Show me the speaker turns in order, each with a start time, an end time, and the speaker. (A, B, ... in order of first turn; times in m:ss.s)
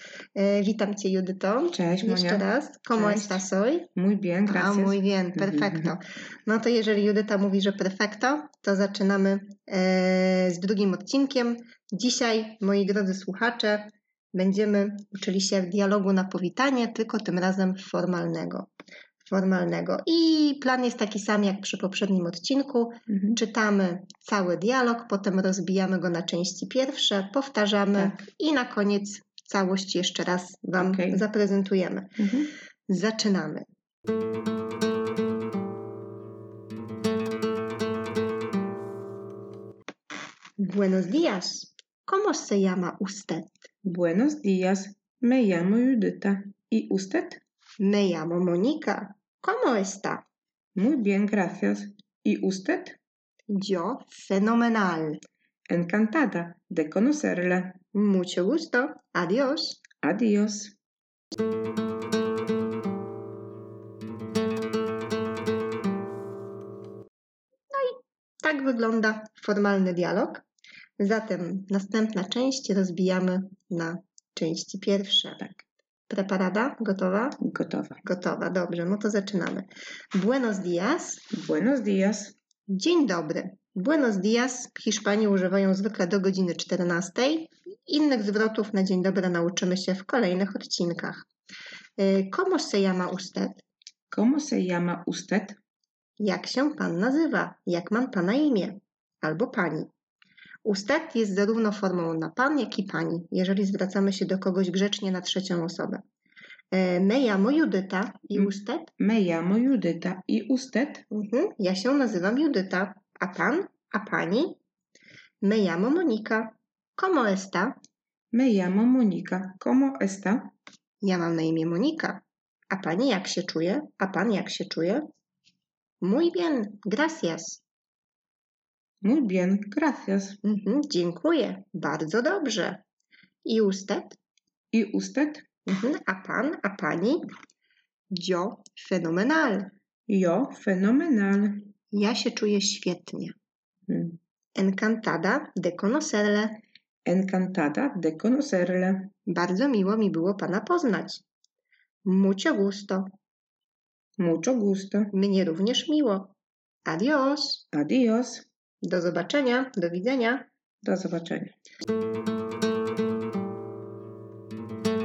0:00.4-0:03.9 A
0:01.7-0:03.4 B
0:04.0-0:05.9 B
0:04.4-0:18.7 A
0:19.2-0:32.2 A
0:23.1-0:23.4 B
0:30.8-0:31.2 B
0:32.2-0:32.5 B
0:32.9-0:33.6 A
0:40.6-0:43.6 A
0:43.8-0:47.4 B
0:47.8-0:50.2 A
0:50.8-0:53.0 B
0:53.5-0:55.2 A
0:55.7-0:57.8 B
0:57.9-0:59.8 A
1:00.0-1:00.8 B
1:07.7-1:10.4 A
1:11.0-1:17.4 A
1:17.4-1:18.0 B
1:18.0-1:21.3 A
1:21.3-1:22.3 B
1:22.7-1:31.2 A
1:32.0-1:33.6 A
1:34.1-1:35.6 B
1:36.2-1:39.9 A
1:40.6-1:46.0 A
1:46.7-1:48.9 A
1:48.3-1:51.0 B
1:51.1-1:54.6 A
1:55.4-1:57.8 A
1:58.3-2:00.5 B
2:01.0-2:05.0 A
2:06.0-2:07.6 A
2:09.0-2:10.4 B
2:10.4-2:12.8 A
2:13.4-2:14.2 A
2:14.7-2:15.4 B
2:15.6-2:17.2 A
2:18.1-2:19.7 A
2:20.1-2:21.7 B
2:21.9-2:23.3 A
2:23.9-2:24.2 B
2:24.6-2:26.6 A
2:27.0-2:29.1 B
2:29.2-2:31.2 A
2:32.0-2:33.1 A
2:34.2-2:35.1 B
2:35.1-2:36.3 A
2:36.8-2:37.6 A
2:37.7-2:38.4 B
2:38.8-2:40.4 A
2:40.8-2:41.5 B